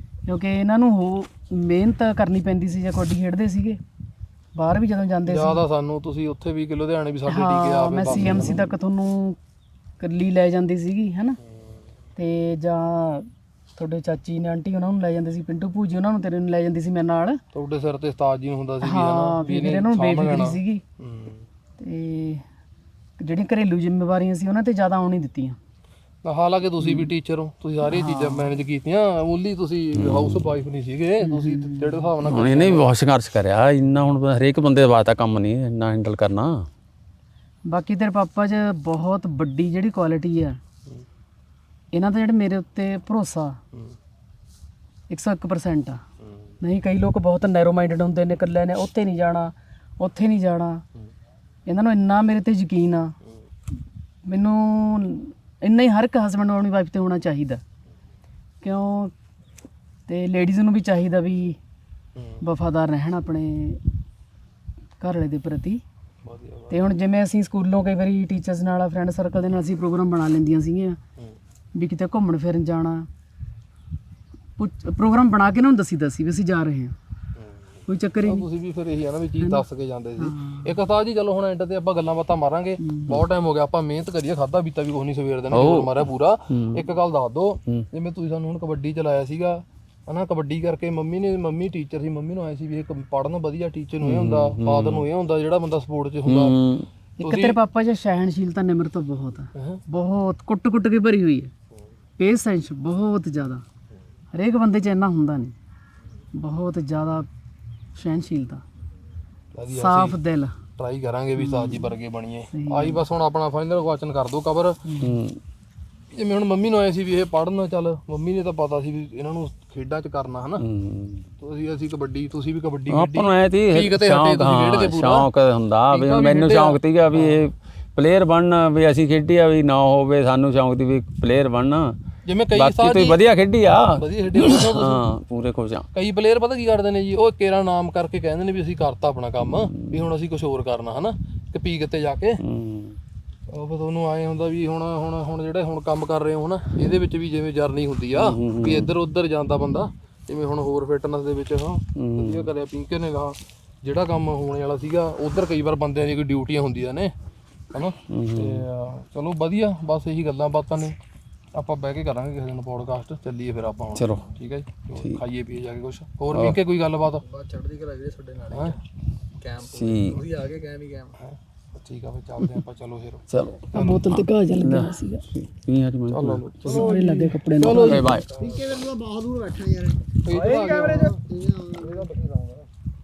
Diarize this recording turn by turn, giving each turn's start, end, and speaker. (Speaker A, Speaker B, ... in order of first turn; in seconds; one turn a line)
Speaker A: 0.3-3.8
Speaker A: 4.5-5.6
Speaker B: 5.3-8.7
Speaker A: 7.3-9.4
Speaker A: 10.0-11.4
Speaker A: 12.2-17.4
Speaker B: 17.5-21.4
Speaker A: 18.8-20.8
Speaker A: 21.8-22.4
Speaker A: 23.2-25.6
Speaker B: 26.2-32.9
Speaker A: 27.8-28.5
Speaker C: 29.9-30.4
Speaker A: 31.2-32.0
Speaker C: 32.2-36.7
Speaker A: 37.7-40.6
Speaker A: 41.9-43.6
Speaker A: 45.1-46.0
Speaker A: 46.6-50.8
Speaker A: 51.6-53.1
Speaker A: 54.2-57.6
Speaker A: 58.6-59.1
Speaker A: 60.1-61.6
Speaker A: 62.4-63.8
Speaker A: 65.0-65.8
Speaker B: 66.2-66.8
Speaker A: 66.7-71.0
Speaker A: 71.7-73.1
Speaker A: 74.6-76.9
Speaker A: 77.9-78.5
Speaker B: 78.2-96.6
Speaker A: 80.2-80.7
Speaker A: 82.8-83.1
Speaker C: 85.5-86.8
Speaker C: 94.0-95.0
Speaker C: 96.2-96.9
Speaker A: 97.2-101.5
Speaker B: 97.2-97.6
Speaker B: 99.5-99.8
Speaker A: 102.2-103.6
Speaker A: 104.3-105.5
Speaker A: 106.3-107.3
Speaker A: 108.0-108.6
Speaker B: 109.5-110.2
Speaker A: 109.7-110.5
Speaker B: 110.8-114.8
Speaker A: 111.4-111.9
Speaker A: 112.5-113.0
Speaker A: 114.9-115.1
Speaker C: 115.0-115.4
Speaker B: 116.1-120.6
Speaker C: 120.6-121.2
Speaker B: 121.4-125.3
Speaker C: 122.9-132.0
Speaker B: 125.9-127.5
Speaker B: 132.2-133.2
Speaker C: 132.6-135.9
Speaker B: 133.9-135.0
Speaker B: 135.9-142.4
Speaker C: 139.7-140.0
Speaker C: 142.4-143.0
Speaker B: 143.5-157.1
Speaker C: 148.1-148.9
Speaker C: 151.9-152.5
Speaker B: 157.7-161.0
Speaker C: 158.1-158.6
Speaker B: 161.5-167.2
Speaker C: 163.9-164.2
Speaker C: 166.3-166.6
Speaker D: 167.1-168.8
Speaker D: 169.4-171.2
Speaker C: 169.7-170.2
Speaker B: 171.2-174.0
Speaker C: 173.3-176.6
Speaker A: 173.7-175.2
Speaker B: 176.1-178.6
Speaker A: 176.6-178.1
Speaker D: 176.6-182.7
Speaker C: 177.8-178.3
Speaker B: 180.2-181.2